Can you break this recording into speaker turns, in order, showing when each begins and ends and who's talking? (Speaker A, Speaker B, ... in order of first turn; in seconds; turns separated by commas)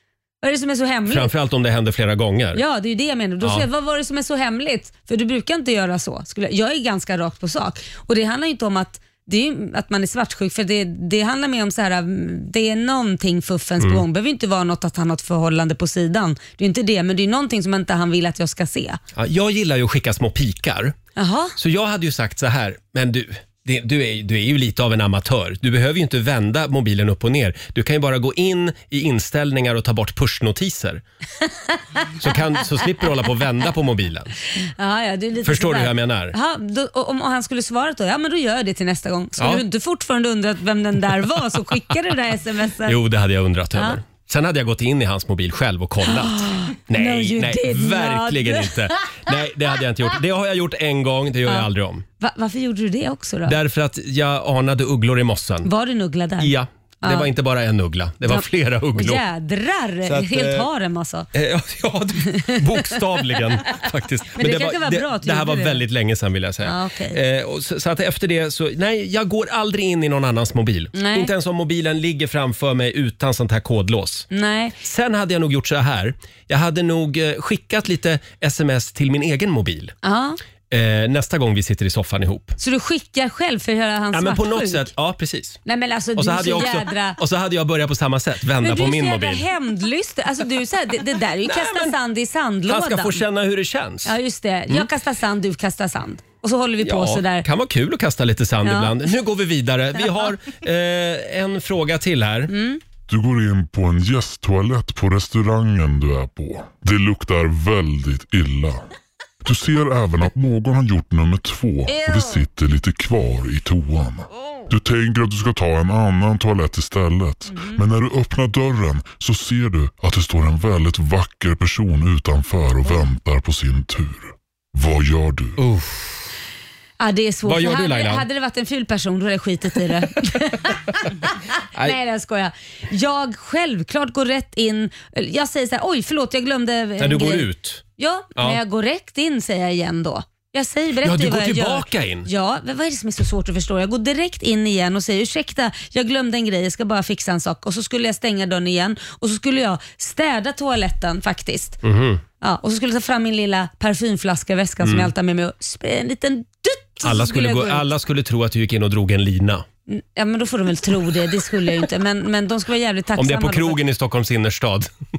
Speaker A: 0.4-1.3, Speaker B: 1.1-2.6, Speaker A: 2.5-19.0, Speaker B: 3.4-3.7, Speaker B: 13.8-14.0, Speaker B: 19.1-20.9, Speaker A: 21.1-21.5, Speaker B: 21.6-31.0, Speaker B: 32.2-34.3, Speaker A: 34.6-43.0, Speaker B: 35.4-36.3, Speaker B: 39.4-39.6, Speaker B: 42.8-52.0, Speaker A: 46.0-48.9, Speaker A: 52.2-53.6, Speaker B: 53.5-55.7, Speaker A: 55.6-57.3, Speaker B: 56.4-59.2, Speaker A: 58.2-61.3, Speaker B: 60.0-60.7, Speaker B: 61.3-74.2, Speaker A: 64.3-65.8, Speaker A: 66.6-67.2, Speaker A: 70.9-71.3, Speaker A: 74.3-74.8, Speaker B: 74.8-79.9, Speaker A: 80.0-80.4, Speaker B: 80.7-82.6, Speaker A: 82.6-84.9, Speaker B: 84.1-85.6, Speaker A: 85.6-87.2, Speaker B: 86.2-89.4, Speaker A: 88.6-93.2, Speaker B: 91.4-92.0, Speaker B: 92.7-94.2, Speaker A: 94.0-97.5, Speaker B: 96.8-102.5, Speaker A: 98.6-99.0, Speaker A: 102.5-102.8, Speaker C: 103.1-108.8, Speaker C: 109.4-125.6, Speaker A: 111.9-112.4, Speaker A: 117.5-117.8, Speaker B: 125.6-126.2, Speaker A: 127.0-151.8, Speaker B: 127.4-128.2, Speaker B: 137.0-137.8, Speaker B: 141.0-142.3, Speaker B: 151.8-152.2, Speaker A: 152.4-157.8, Speaker B: 154.8-155.1, Speaker B: 157.0-159.7, Speaker A: 159.9-163.8, Speaker B: 163.2-164.9